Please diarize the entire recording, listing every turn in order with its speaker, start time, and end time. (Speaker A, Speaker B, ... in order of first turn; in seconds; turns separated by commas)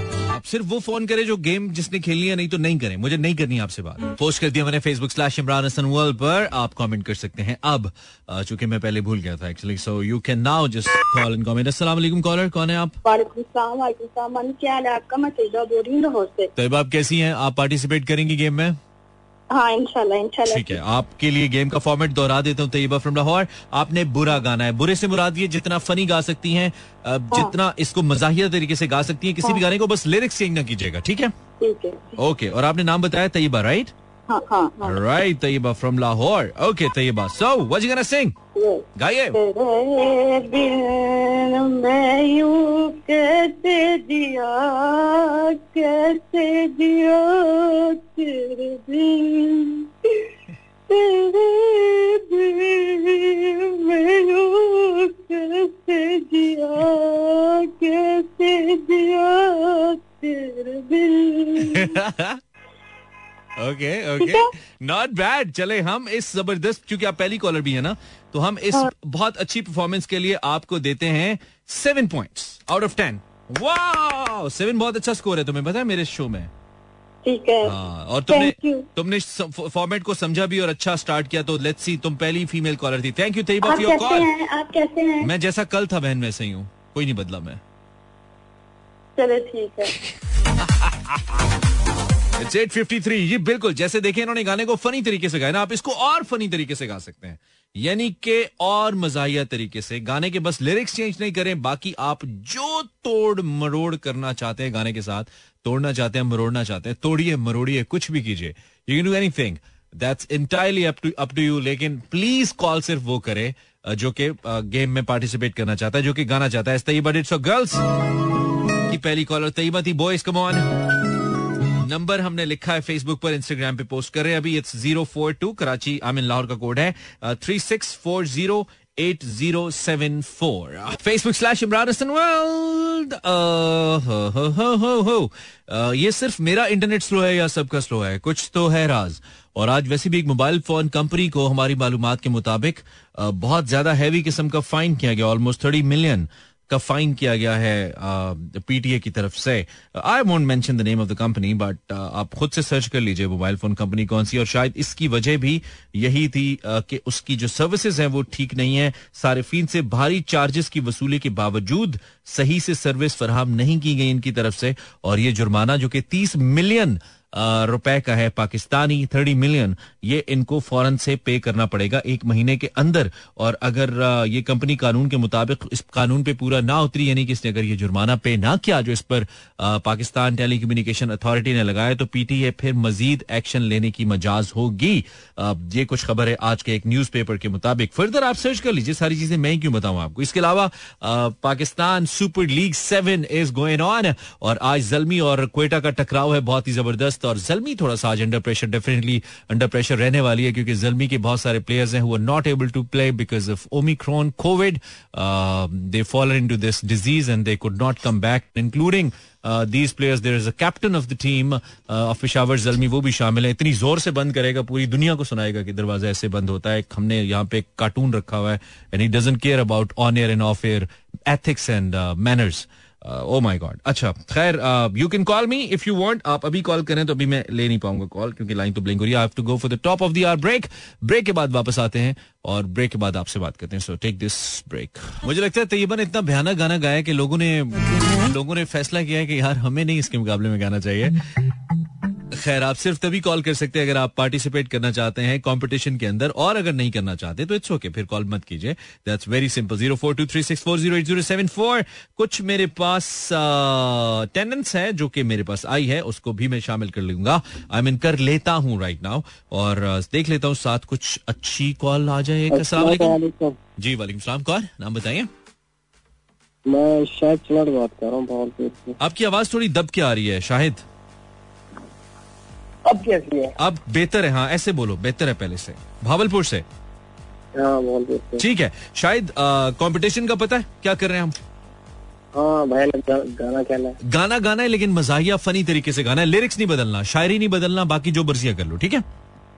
Speaker A: 0.3-13.0, Speaker B: 13.1-16.5, Speaker A: 16.6-18.8, Speaker B: 19.5-20.8, Speaker A: 20.4-31.3, Speaker B: 31.6-32.2, Speaker A: 32.2-33.9, Speaker B: 34.3-35.0, Speaker A: 34.8-38.4, Speaker B: 38.6-49.9, Speaker A: 39.0-39.4, Speaker B: 50.9-62.0, Speaker A: 61.6-62.4, Speaker A: 63.6-76.5, Speaker B: 64.2-64.5, Speaker B: 77.2-77.7, Speaker A: 77.6-84.4, Speaker B: 78.3-78.9, Speaker B: 83.7-85.3, Speaker A: 85.2-87.6, Speaker B: 89.2-89.9, Speaker A: 90.6-91.2, Speaker A: 92.4-117.8, Speaker A: 118.9-120.8, Speaker A: 121.8-241.3, Speaker A: 242.3-263.2, Speaker C: 262.7-263.3, Speaker A: 263.8-265.3, Speaker C: 266.7-268.4, Speaker A: 269.0-270.8, Speaker C: 272.9-273.5, Speaker A: 273.6-276.6, Speaker C: 277.6-278.4, Speaker A: 278.4-281.4, Speaker C: 282.3-284.0, Speaker A: 284.1-289.0